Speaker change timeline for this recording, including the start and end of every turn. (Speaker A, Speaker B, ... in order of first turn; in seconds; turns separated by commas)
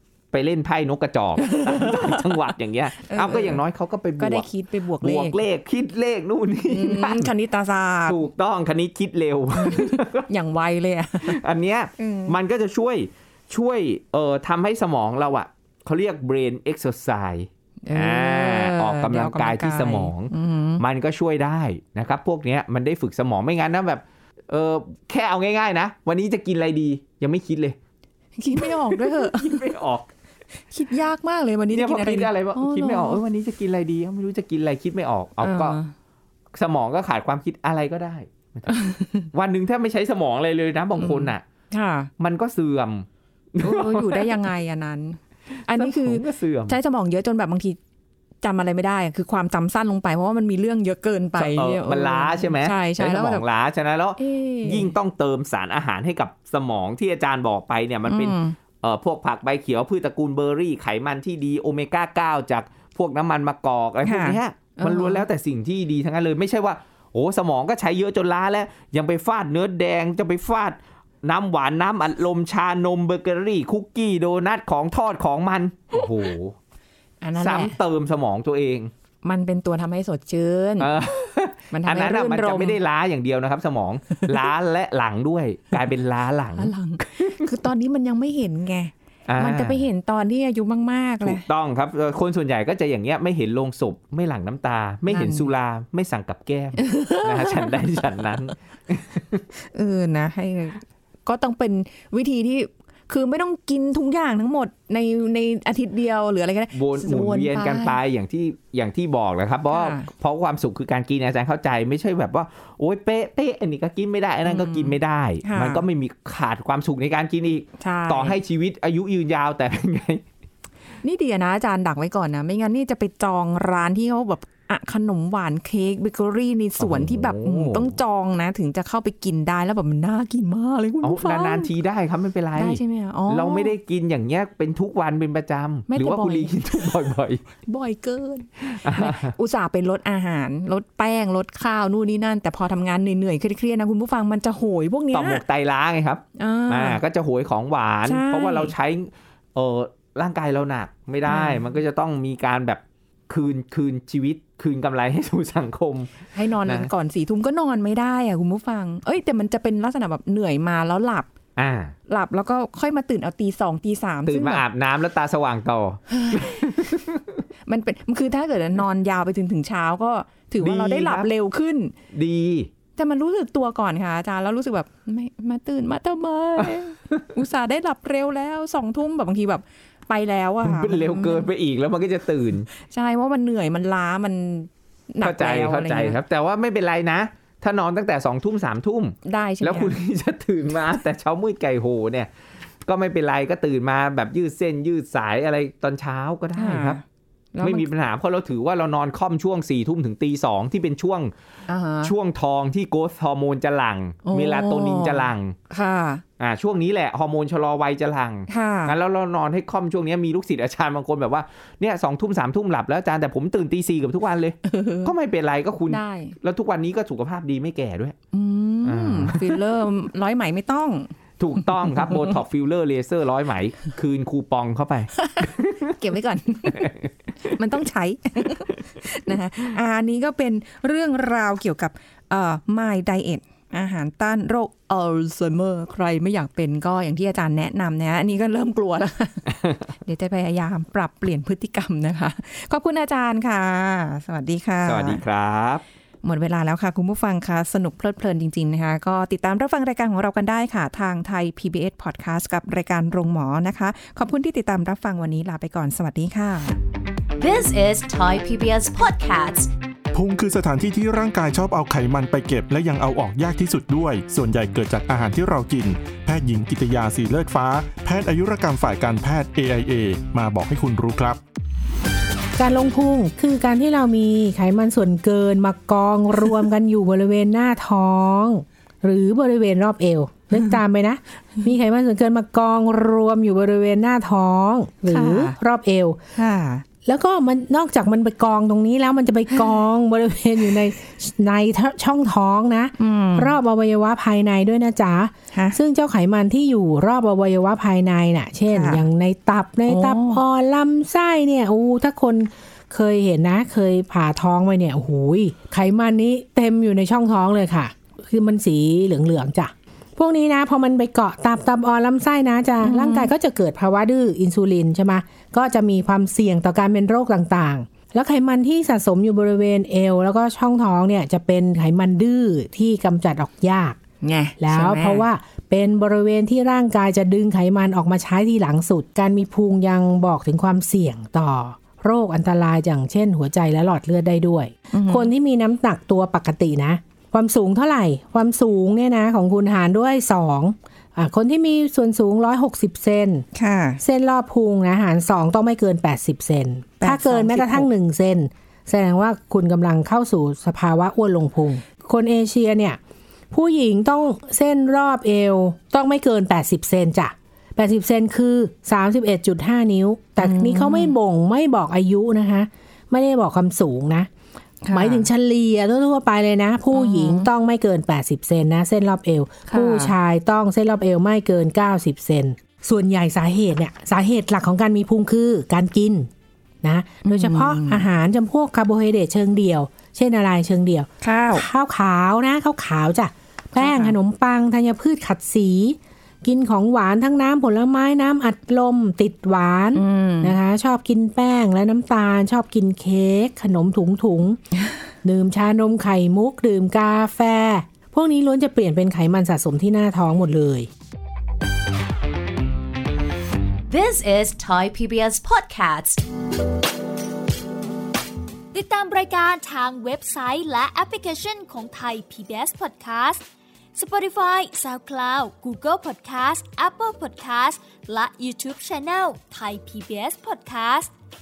Speaker A: 0.3-4.5, Speaker B: 1.4-2.3, Speaker B: 3.0-3.6, Speaker B: 4.2-5.4, Speaker A: 5.0-7.3, Speaker B: 6.7-8.2, Speaker A: 8.1-10.3, Speaker B: 9.5-11.4, Speaker A: 11.2-27.8, Speaker B: 12.0-12.4, Speaker B: 17.9-20.8, Speaker B: 28.4-29.6, Speaker A: 28.5-30.1, Speaker B: 30.7-33.2, Speaker A: 31.7-35.8, Speaker B: 35.4-35.9, Speaker A: 36.5-38.7, Speaker B: 38.7-39.3, Speaker A: 39.3-41.4, Speaker B: 41.0-42.1, Speaker A: 42.2-44.4, Speaker B: 43.6-47.8, Speaker A: 45.7-46.8, Speaker B: 48.4-53.4, Speaker A: 51.4-76.5, Speaker B: 54.2-54.9, Speaker B: 58.0-58.5, Speaker B: 64.0-65.2, Speaker B: 77.2-77.7, Speaker A: 77.4-78.9, Speaker B: 79.2-80.9, Speaker A: 80.8-87.5, Speaker B: 81.7-82.8, Speaker B: 86.6-91.5, Speaker A: 89.3-89.8, Speaker A: 91.2-99.4, Speaker B: 95.1-95.5, Speaker B: 96.8-97.8, Speaker B: 99.7-108.0, Speaker A: 106.7-120.2, Speaker B: 109.7-110.1, Speaker B: 114.4-115.8, Speaker B: 117.8-118.4, Speaker B: 121.0-131.7, Speaker A: 126.8-127.9, Speaker A: 131.0-137.4, Speaker B: 132.6-133.7, Speaker B: 135.9-136.7, Speaker B: 137.6-145.4, Speaker A: 138.7-139.3, Speaker A: 145.1-156.9, Speaker B: 146.4-147.0, Speaker B: 148.0-148.7, Speaker B: 151.2-151.6, Speaker B: 156.3-161.3, Speaker A: 161.6-161.9, Speaker B: 162.1-164.6, Speaker A: 164.3-167.4, Speaker B: 166.1-166.7, Speaker B: 167.7-171.9, Speaker A: 170.6-171.3, Speaker A: 172.1-172.7, Speaker B: 172.9-181.5, Speaker A: 176.6-177.2, Speaker A: 180.6-182.7, Speaker B: 182.7-186.2, Speaker A: 185.2-192.3, Speaker B: 189.2-190.0, Speaker A: 192.8-197.0, Speaker B: 196.6-197.0, Speaker B: 197.5-197.9, Speaker A: 197.6-201.3, Speaker B: 201.7-202.1, Speaker A: 202.0-205.6, Speaker B: 204.2-206.2, Speaker A: 206.4-218.2, Speaker B: 208.5-208.9, Speaker B: 214.7-215.1, Speaker B: 215.9-216.4, Speaker B: 218.3-221.1, Speaker A: 218.8-219.6, Speaker A: 221.4-225.9, Speaker B: 221.8-222.3, Speaker B: 225.2-239.5, Speaker B: 240.0-245.2, Speaker A: 244.9-245.8, Speaker B: 246.2-256.8, Speaker C: 257.4-259.7, Speaker D: 260.1-271.4, Speaker E: 272.6-286.2, Speaker B: 285.1-285.6, Speaker B: 286.4-286.9, Speaker E: 287.0-324.0, Speaker B: 293.0-293.6, Speaker B: 295.5-295.8, Speaker B: 298.7-299.0, Speaker B: 299.9-300.4, Speaker B: 312.8-313.3, Speaker B: 324.2-325.2, Speaker E: 324.6-343.4, Speaker B: 334.9-335.3, Speaker B: 343.5-344.0, Speaker E: 344.0-353.0, Speaker B: 347.0-347.9, Speaker E: 353.5-364.3, Speaker B: 360.4-361.1, Speaker B: 364.8-365.3, Speaker E: 364.9-376.3, Speaker B: 366.9-367.5, Speaker B: 369.7-370.1, Speaker E: 376.8-394.6, Speaker B: 377.2-378.0, Speaker B: 381.2-381.6, Speaker B: 383.8-384.1, Speaker B: 389.9-390.6, Speaker E: 395.2-400.9, Speaker C: 403.9-406.3, Speaker F: 408.7-421.1